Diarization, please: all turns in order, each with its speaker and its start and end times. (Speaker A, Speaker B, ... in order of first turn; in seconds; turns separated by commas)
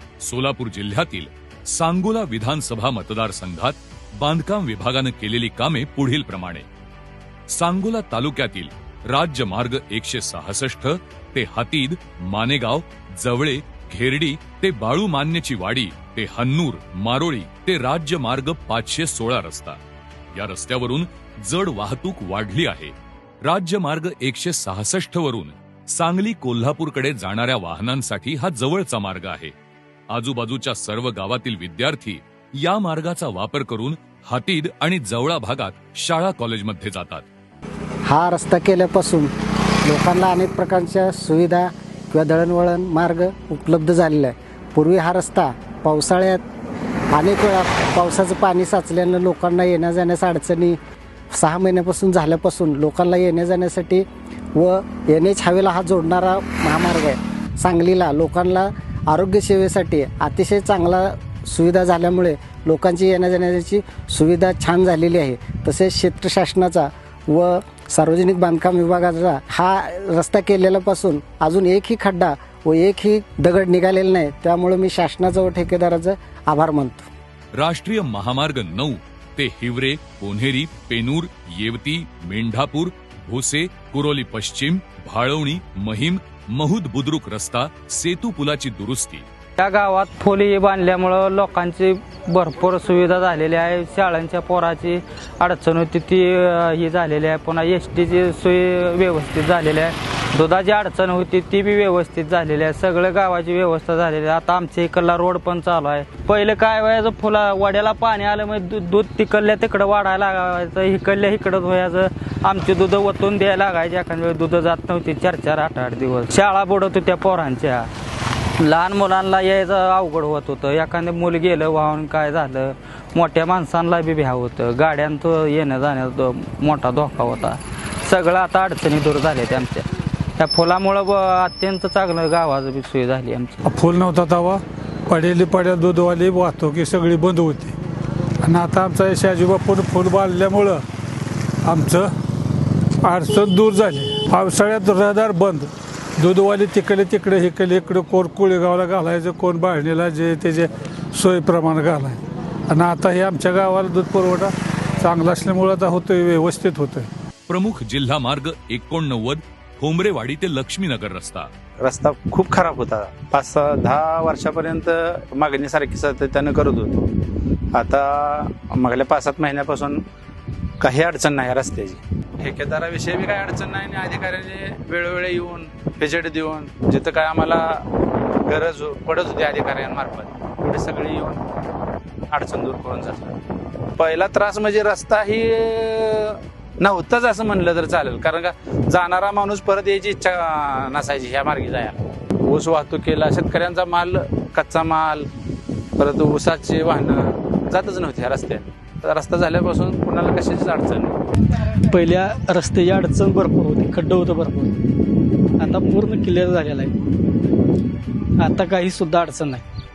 Speaker A: 0.2-6.7, Speaker A: 7.5-19.8, Speaker A: 20.3-22.9, Speaker A: 23.4-29.5, Speaker A: 30.1-37.3, Speaker B: 38.1-39.3, Speaker B: 39.8-46.4, Speaker B: 47.1-50.8, Speaker B: 51.3-77.1, Speaker A: 77.6-89.2, Speaker C: 89.6-117.9, Speaker C: 118.6-133.6, Speaker D: 133.6-137.8, Speaker D: 138.4-140.8, Speaker D: 141.6-142.1, Speaker D: 143.0-157.1, Speaker A: 157.5-161.5, Speaker E: 161.8-167.1, Speaker E: 167.8-170.0, Speaker E: 170.8-177.8, Speaker E: 178.4-181.4, Speaker E: 182.3-183.4, Speaker E: 184.0-195.3, Speaker E: 196.0-201.2, Speaker F: 201.9-204.8, Speaker F: 205.6-207.0, Speaker F: 208.4-209.6